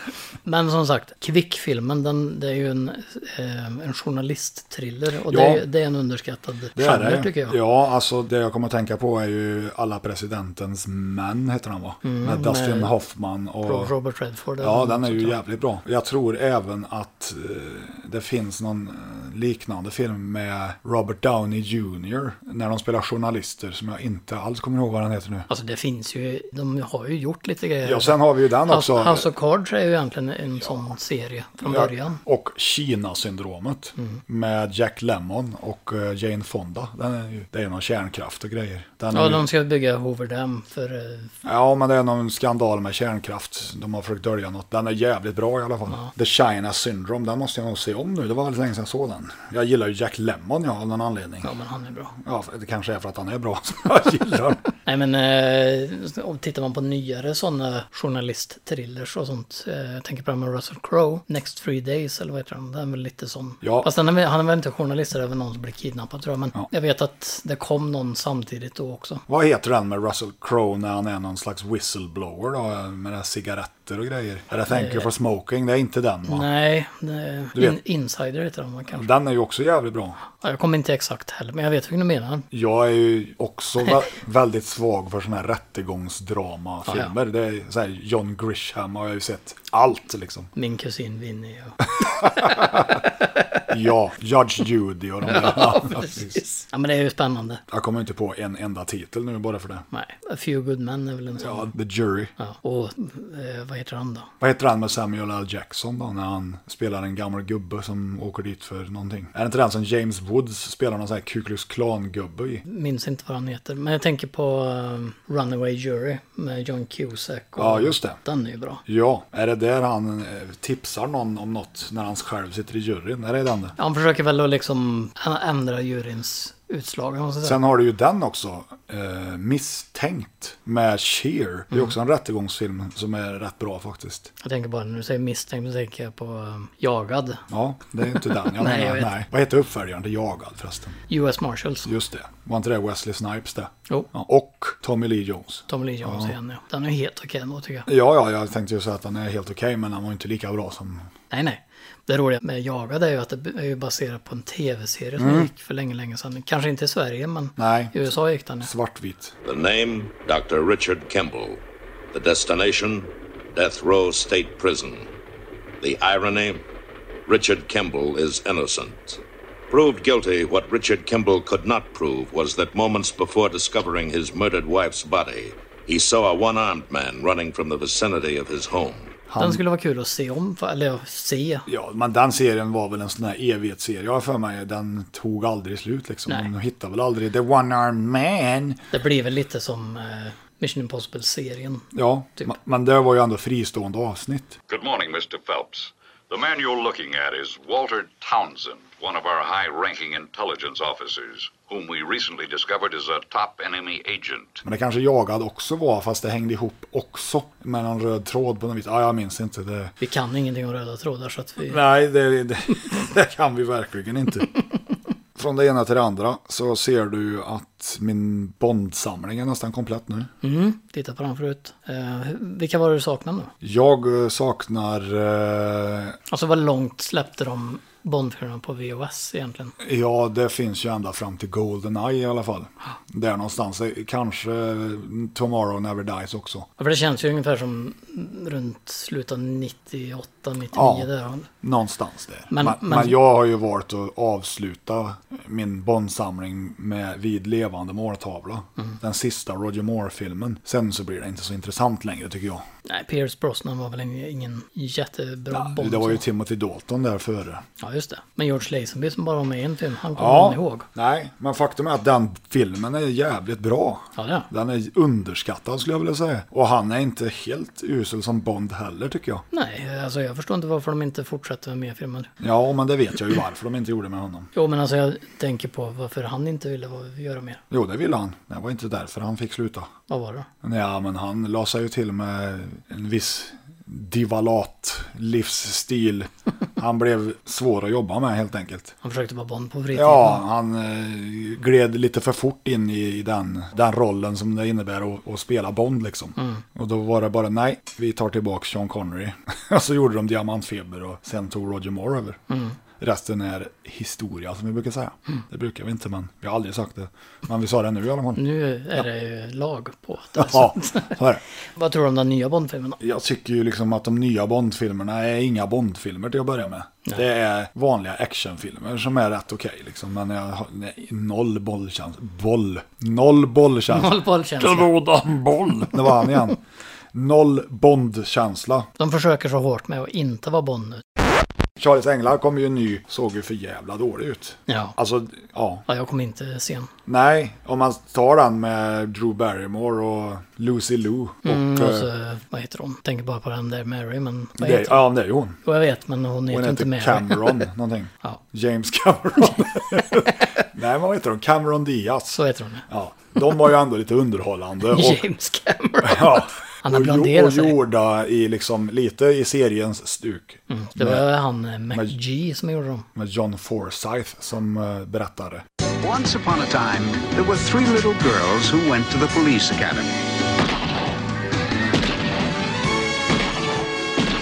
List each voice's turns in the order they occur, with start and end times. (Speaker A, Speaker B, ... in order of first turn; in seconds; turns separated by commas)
Speaker A: 0.5-7.6, Speaker B: 5.3-5.6, Speaker B: 6.8-13.9, Speaker A: 12.0-12.9, Speaker A: 13.7-15.4, Speaker B: 14.6-25.5, Speaker A: 25.5-32.2, Speaker B: 27.8-29.3, Speaker B: 31.6-39.5, Speaker A: 39.1-41.3, Speaker B: 41.4-51.5, Speaker A: 51.4-52.1, Speaker B: 52.2-54.6, Speaker A: 54.9-69.2, Speaker B: 63.6-63.9, Speaker B: 69.3-76.5, Speaker A: 74.7-75.1, Speaker A: 76.3-79.1, Speaker B: 78.9-80.2, Speaker A: 80.4-82.5, Speaker B: 82.5-90.5, Speaker A: 86.9-87.1, Speaker A: 90.6-93.0, Speaker B: 92.0-93.0, Speaker B: 93.7-96.4, Speaker A: 95.2-97.6, Speaker B: 97.7-99.9, Speaker A: 99.9-101.7, Speaker B: 101.4-102.3, Speaker A: 102.4-104.3, Speaker B: 104.4-112.6, Speaker A: 112.7-118.8, Speaker B: 117.6-118.2, Speaker B: 118.9-123.8, Speaker A: 123.8-127.6, Speaker B: 127.4-134.3, Speaker A: 134.4-137.4, Speaker B: 137.5-141.0, Speaker A: 138.4-139.2, Speaker A: 141.1-141.9, Speaker B: 141.9-146.3, Speaker A: 145.7-147.9, Speaker B: 147.9-151.1, Speaker A: 151.3-158.7, Speaker B: 155.2-155.5, Speaker B: 157.6-158.1, Speaker B: 158.6-159.3, Speaker C: 159.4-161.6, Speaker C: 162.1-165.1, Speaker C: 165.8-166.6, Speaker C: 167.3-179.1, Speaker B: 179.3-179.6, Speaker A: 179.4-181.7, Speaker B: 181.7-188.8, Speaker A: 188.9-191.9, Speaker B: 191.9-194.6, Speaker D: 194.7-204.6, Speaker B: 204.6-209.9, Speaker A: 210.0-211.8, Speaker B: 211.7-214.5, Speaker B: 215.4-220.3, Speaker A: 220.4-223.5, Speaker B: 223.6-226.2, Speaker A: 226.3-229.8, Speaker B: 229.8-236.7, Speaker A: 236.8-241.5, Speaker B: 240.7-241.1, Speaker B: 241.6-252.7, Speaker A: 242.5-243.2, Speaker A: 252.9-256.2, Speaker B: 255.5-257.6, Speaker A: 257.8-260.9, Speaker B: 260.2-269.4, Speaker A: 264.2-264.5, Speaker A: 269.5-272.3, Speaker B: 272.4-274.5, Speaker A: 274.6-277.6, Speaker B: 277.7-279.9, Speaker A: 280.1-280.5, Speaker B: 280.6-288.9, Speaker A: 289.0-290.4, Speaker B: 289.9-302.4, Speaker A: 296.4-296.6, Speaker A: 302.5-302.8, Speaker B: 303.0-308.4, Speaker A: 308.4-311.2, Speaker B: 310.4-311.4, Speaker A: 311.8-313.0, Speaker B: 313.0-326.6, Speaker A: 323.9-325.0, Speaker A: 326.1-326.3, Speaker B: 327.1-328.9, Speaker A: 329.0-331.0, Speaker B: 331.8-335.9, Speaker A: 334.7-335.0, Speaker A: 335.9-336.9, Speaker B: 337.1-342.1, Speaker A: 341.4-345.1, Speaker B: 344.6-345.6, Speaker A: 345.6-347.7, Speaker B: 346.5-355.2, Speaker A: 352.3-352.9, Speaker A: 354.9-357.8, Speaker B: 356.0-361.2, Speaker A: 360.7-363.1, Speaker B: 361.9-362.2, Speaker B: 363.1-365.6, Speaker E: 366.0-370.2